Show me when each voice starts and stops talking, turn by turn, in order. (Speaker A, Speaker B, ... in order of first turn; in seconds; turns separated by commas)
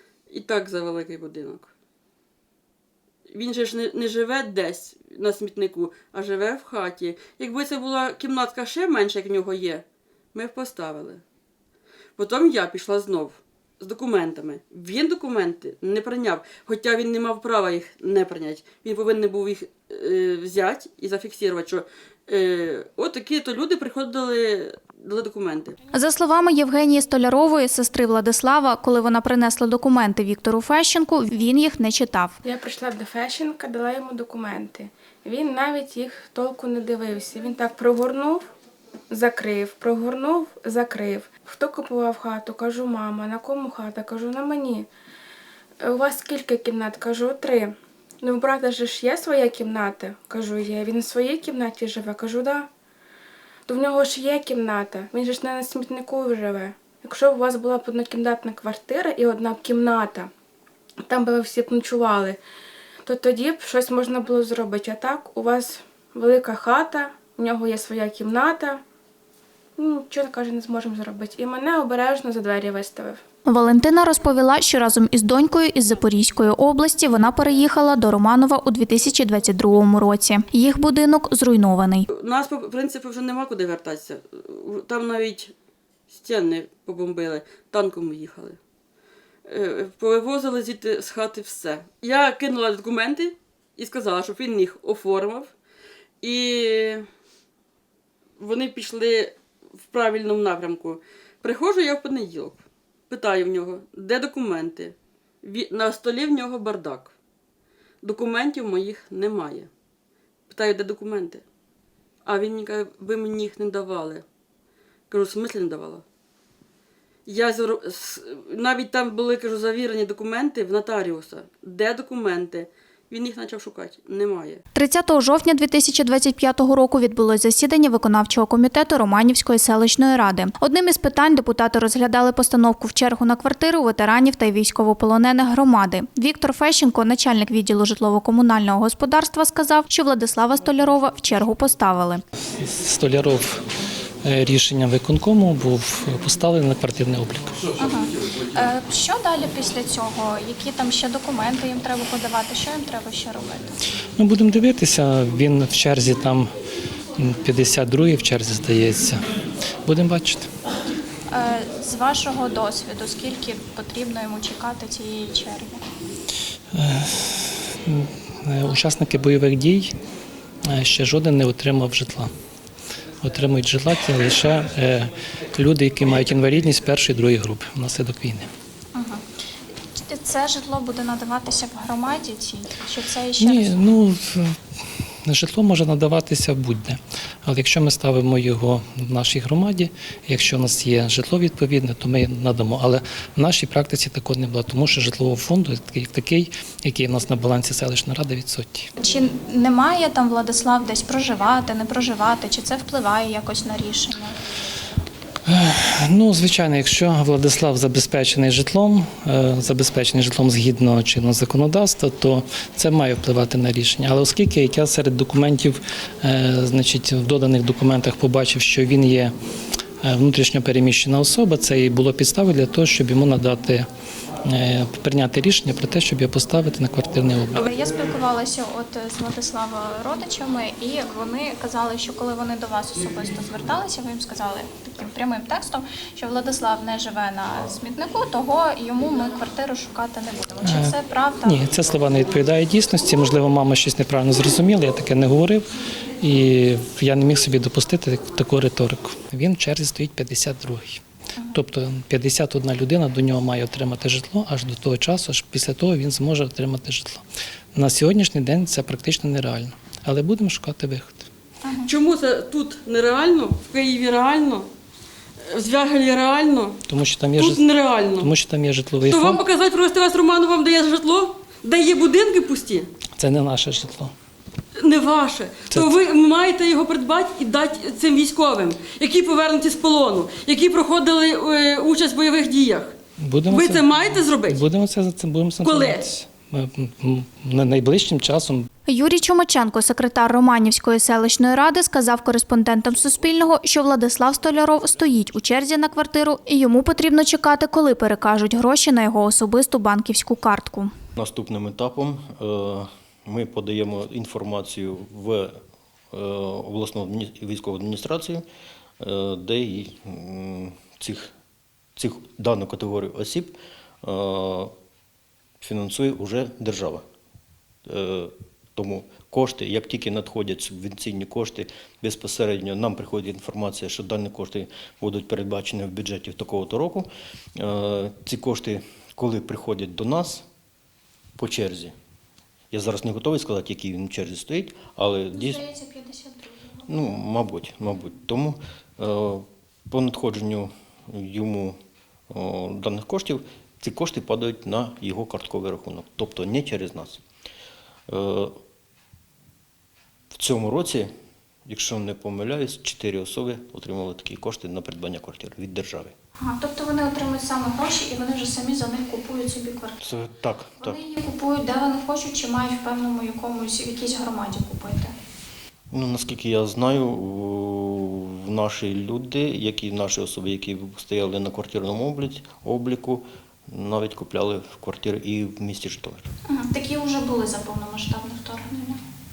Speaker A: 0.3-1.7, Speaker A: 3.3-11.2, Speaker A: 12.2-25.8, Speaker B: 25.9-32.4, Speaker C: 32.4-38.5, Speaker C: 39.1-44.9, Speaker C: 45.8-52.7, Speaker C: 53.7-60.3, Speaker C: 61.0-62.4, Speaker C: 63.0-68.8, Speaker C: 69.8-73.2, Speaker B: 73.5-82.1, Speaker A: 82.1-85.5, Speaker A: 86.1-88.6, Speaker A: 89.5-95.5, Speaker A: 96.2-97.1, Speaker A: 98.4-107.1, Speaker A: 108.0-109.7, Speaker A: 110.5-111.4, Speaker A: 112.2-114.2, Speaker A: 115.1-116.0, Speaker A: 117.3-124.6, Speaker B: 124.7-142.2, Speaker D: 142.6-143.6, Speaker D: 144.2-147.6, Speaker B: 147.8-153.8, Speaker D: 154.2-156.5, Speaker D: 157.2-159.2, Speaker D: 159.9-160.5, Speaker B: 161.3-165.8, Speaker D: 166.7-169.9, Speaker D: 170.7-172.3, Speaker D: 173.2-178.5, Speaker B: 178.9-179.2, Speaker B: 179.9-183.8, Speaker D: 183.4-184.6, Speaker D: 185.2-198.9, Speaker B: 199.0-204.4, Speaker D: 205.5-219.3, Speaker D: 220.0-223.9, Speaker D: 224.5-227.7, Speaker B: 227.6-241.6, Speaker D: 240.6-245.7, Speaker D: 246.2-257.2, Speaker D: 257.8-261.2, Speaker B: 261.6-261.9, Speaker A: 261.9-264.7, Speaker A: 265.4-266.8, Speaker D: 266.9-267.6, Speaker A: 267.4-268.3, Speaker D: 268.2-269.4, Speaker A: 269.1-272.9, Speaker D: 273.2-274.1, Speaker A: 274.8-283.0, Speaker D: 283.2-288.7, Speaker A: 283.5-284.6, Speaker A: 285.6-286.1, Speaker B: 288.9-300.9, Speaker E: 301.2-305.6, Speaker E: 306.1-308.4, Speaker E: 309.0-311.3, Speaker E: 312.0-314.7, Speaker E: 315.6-317.0, Speaker E: 317.9-330.4, Speaker E: 331.4-331.9, Speaker E: 332.7-335.7, Speaker B: 335.3-336.9, Speaker E: 336.9-341.8, Speaker E: 342.3-347.2, Speaker E: 348.1-348.6, Speaker E: 350.3-351.1, Speaker E: 351.7-356.1, Speaker B: 356.4-360.0, Speaker E: 360.0-361.0, Speaker B: 360.8-365.1, Speaker E: 365.9-376.3, Speaker B: 376.5-379.0